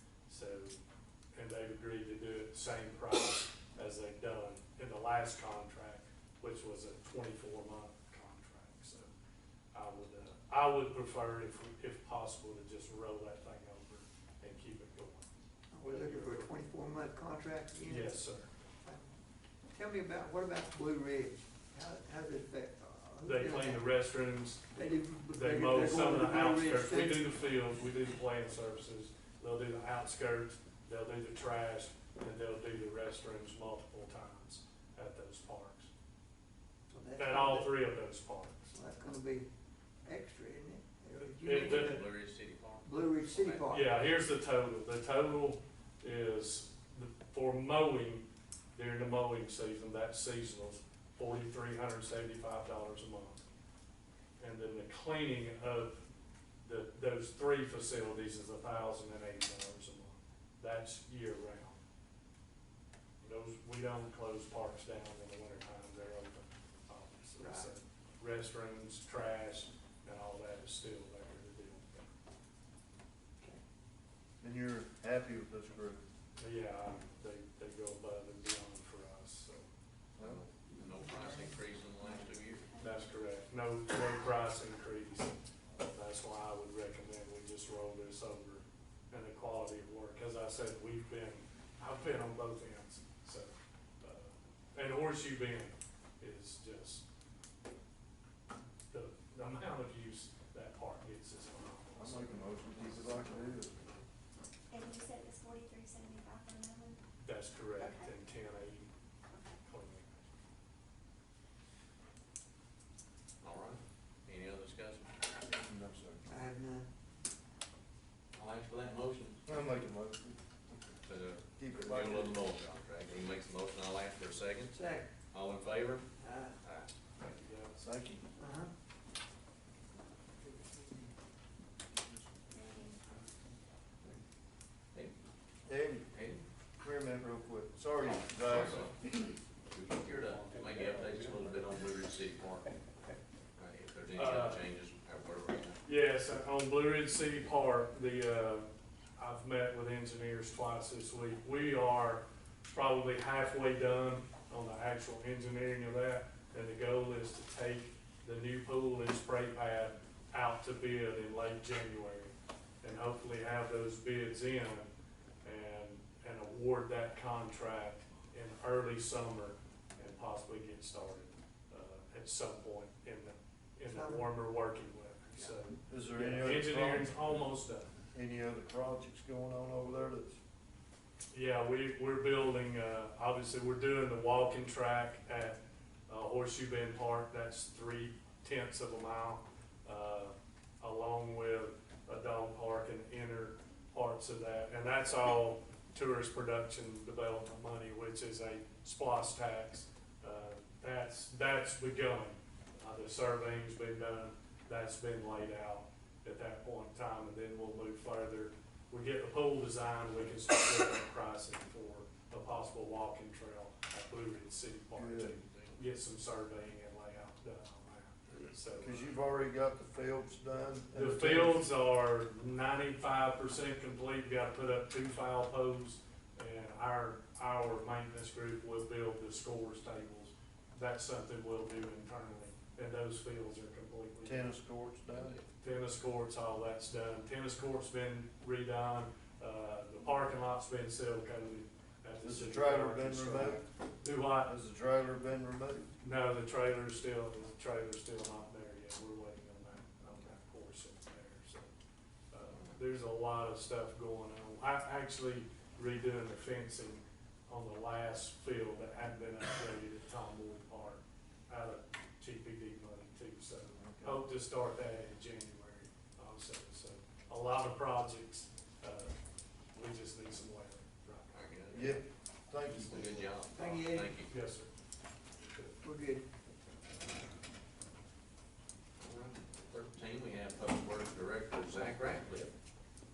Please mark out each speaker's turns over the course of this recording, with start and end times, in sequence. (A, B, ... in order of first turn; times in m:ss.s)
0:00.3-0:00.8 A
0:01.3-0:09.1 A
0:09.7-0:15.3 A
0:15.7-0:18.2 B
0:15.8-0:16.5 A
0:17.8-0:18.5 A
0:18.8-0:19.1 B
0:19.7-0:23.8 B
0:23.2-0:24.7 A
0:24.7-0:27.4 B
0:25.3-0:35.9 A
0:36.9-0:37.7 B
0:37.2-0:38.7 A
0:38.7-0:39.5 B
0:40.0-0:42.1 B
0:41.4-0:42.0 A
0:41.5-0:43.6 C
0:42.8-0:43.9 B
0:43.7-0:53.4 A
0:54.4-0:56.0 A
0:56.6-1:01.8 A
1:03.2-1:12.1 A
1:07.4-1:07.7 B
1:14.4-1:16.0 D
1:16.4-1:19.7 A
1:20.2-1:22.7 C
1:20.7-1:21.5 B
1:22.7-1:23.0 E
1:22.8-1:37.0 A
1:38.9-1:44.0 A
1:42.0-1:43.8 D
1:44.7-1:47.0 E
1:47.2-1:48.9 A
1:47.8-1:48.1 E
1:49.3-1:49.6 E
1:49.6-1:50.4 A
1:53.4-1:55.2 C
1:55.4-1:56.2 D
1:56.2-1:56.9 B
1:58.3-1:59.4 C
1:59.4-2:00.7 D
2:01.0-2:06.1 C
2:01.6-2:02.4 D
2:04.7-2:05.1 B
2:06.2-2:06.6 B
2:06.6-2:06.9 C
2:07.2-2:07.8 A
2:07.8-2:08.2 D
2:08.4-2:08.7 B
2:10.4-2:11.1 B
2:12.5-2:13.2 E
2:15.6-2:16.1 D
2:16.1-2:16.5 C
2:16.8-2:19.1 D
2:18.3-2:19.1 C
2:19.7-2:22.7 C
2:20.3-2:21.6 A
2:23.6-2:25.8 C
2:24.1-2:24.6 A
2:25.8-2:44.9 A
2:45.4-2:57.9 A
2:53.9-2:54.3 B
2:55.8-2:57.1 D
2:58.1-3:00.4 D
3:01.3-3:39.1 A
3:34.9-3:35.3 D
3:35.4-3:35.8 C
3:38.8-3:41.7 D
3:40.9-3:54.5 A
3:54.2-3:55.4 D
3:55.1-3:55.4 C
3:55.6-4:04.5 A
4:02.2-4:03.6 D
4:04.4-4:05.9 D
4:06.0-4:11.7 A
4:12.3-4:29.1 A
4:23.8-4:24.2 D
4:29.7-4:31.4 A
4:31.3-4:32.0 C
4:31.7-4:33.2 D
4:32.6-4:34.3 C
4:33.5-4:34.2 B
4:34.3-4:34.7 A
4:35.4-4:35.8 A
4:35.8-4:36.3 B
4:39.0-4:42.5 C